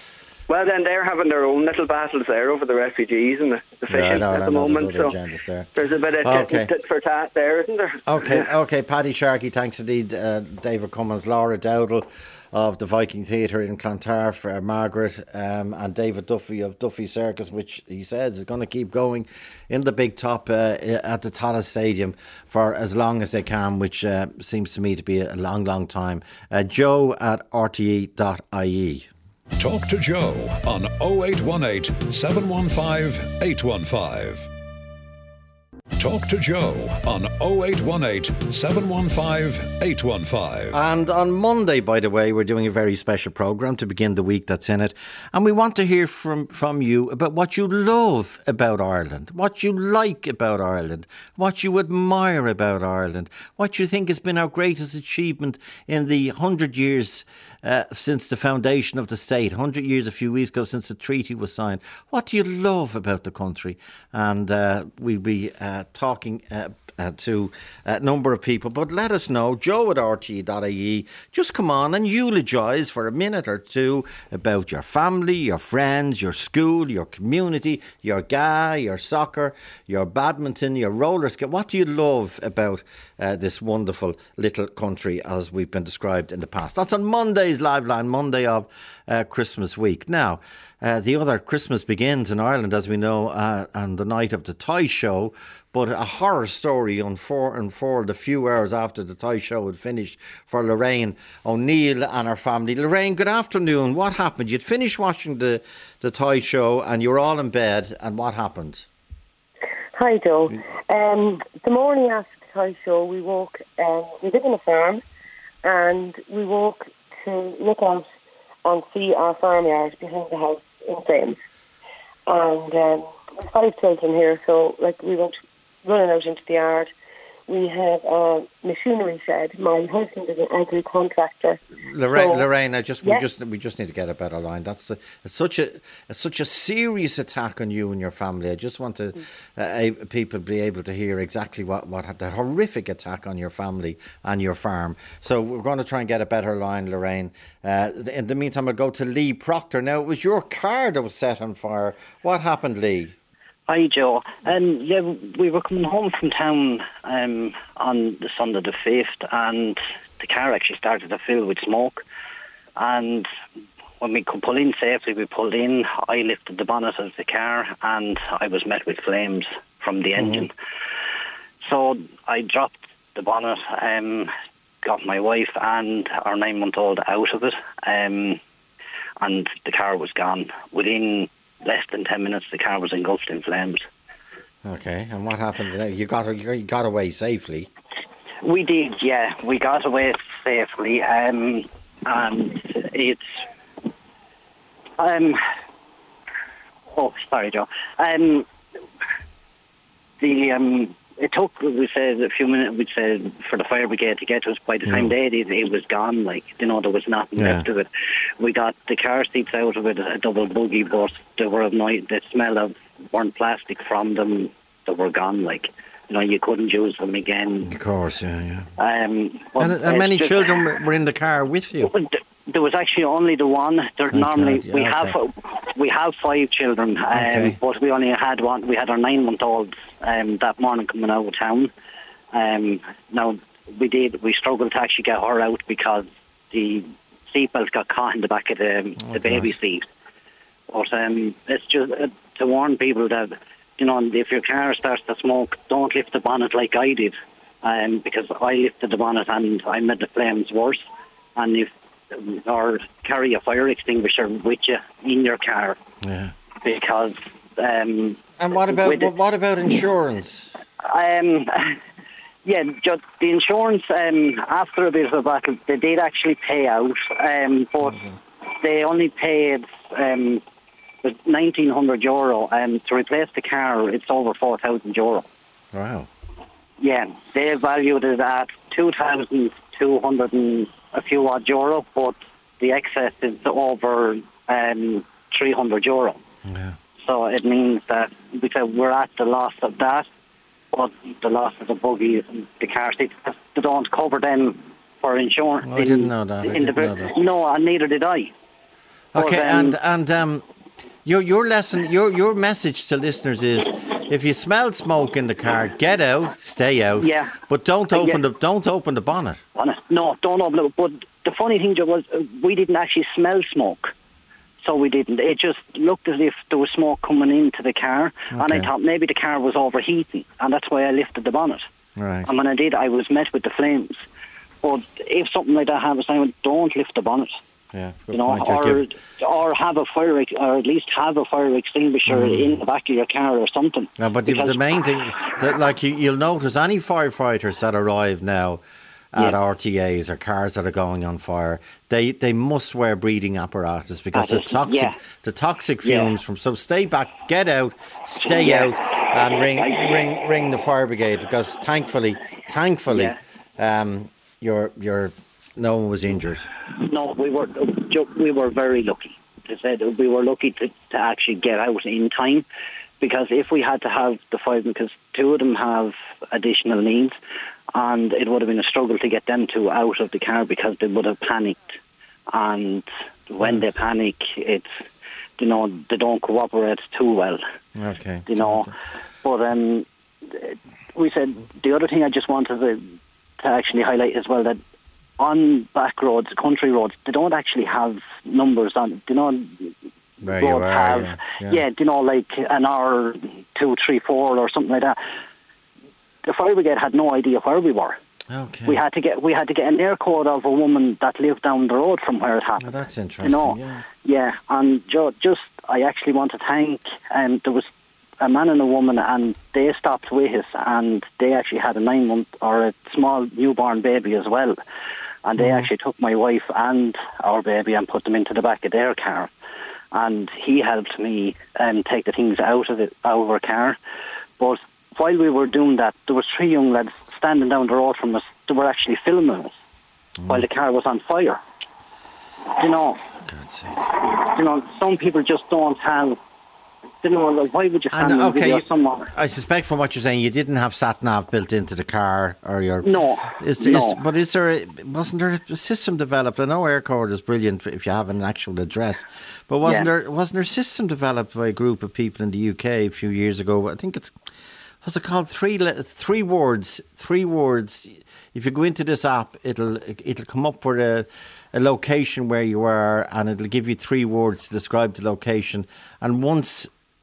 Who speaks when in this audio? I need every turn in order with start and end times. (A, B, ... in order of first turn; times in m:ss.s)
0:00.5-0:05.2 A
0:03.9-0:06.7 B
0:05.7-0:08.5 A
0:08.0-0:29.1 B
0:29.6-0:34.5 C
0:36.0-0:40.8 C
0:40.7-1:48.9 B
1:49.9-1:55.0 D
1:55.6-1:58.1 D
1:58.6-2:01.4 D
2:02.3-2:06.9 D
2:07.5-2:11.6 D
2:11.8-2:33.1 B
2:12.1-2:12.4 D
2:33.7-2:42.0 E
2:42.8-2:43.3 E
2:44.0-2:50.5 E
2:51.6-2:54.3 E
2:54.8-2:58.4 E
2:59.2-3:03.8 E
3:04.6-3:07.7 B
3:08.4-3:13.4 E
3:15.0-3:15.4 E
3:16.9-3:18.5 E
3:20.2-3:37.7 E
3:27.4-3:27.6 B
3:37.6-3:38.7 B
3:38.8-3:40.6 E
3:39.6-3:41.9 B
3:41.8-3:51.7 E
3:44.1-3:45.2 B
3:47.1-3:47.6 B
3:52.3-3:59.8 E
3:59.1-3:59.5 B
4:00.7-4:10.8 E
4:11.4-4:15.8 E
4:16.0-4:16.3 B
4:16.6-4:19.1 E
4:18.4-4:20.5 B
4:20.8-4:21.8 E
4:22.4-4:30.4 E
4:31.0-4:35.3 E
4:35.7-4:36.1 B
4:36.8-4:46.2 E
4:46.4-4:46.8 B
4:47.0-4:50.1 E
4:50.7-4:58.3 E
4:55.6-4:57.1 B
4:59.1-5:00.4 B
4:59.1-4:59.8 E
5:01.0-5:09.4 B
5:07.0-5:07.3 E
5:07.9-5:08.2 E
5:09.6-5:13.9 E
5:14.6-5:21.6 E
5:18.3-5:18.7 B
5:22.0-5:22.3 B
5:22.2-5:24.0 E
5:24.6-5:27.4 E
5:27.7-5:28.8 B
5:28.1-5:34.6 E
5:32.1-5:32.6 B
5:34.0-5:56.5 B
5:44.1-5:45.0 E
5:45.8-5:46.1 E
5:48.2-5:50.0 E
5:52.9-5:53.2 E
5:56.8-6:02.4 E
6:03.0-6:07.2 E
6:07.7-6:11.6 E
6:12.3-6:14.7 E
6:15.4-6:17.4 E
6:17.8-6:18.7 B
6:18.3-6:24.6 E
6:25.2-6:29.7 E
6:30.2-6:31.6 B
6:30.3-6:35.0 E
6:36.2-6:38.0 E
6:38.3-6:38.8 B
6:38.6-6:47.7 E
6:42.6-6:43.8 B
6:48.2-6:54.6 E
6:55.2-6:59.3 E
6:55.4-6:55.7 B
6:59.9-7:03.8 E
7:04.4-7:09.5 E
7:10.2-7:10.4 B
7:10.3-7:11.4 E
7:12.6-7:13.0 E
7:13.2-7:13.9 B
7:14.1-7:16.2 E
7:17.0-7:19.1 E
7:17.9-7:34.2 B
7:22.8-7:24.0 E
7:29.6-7:29.9 E
7:34.8-7:46.7 B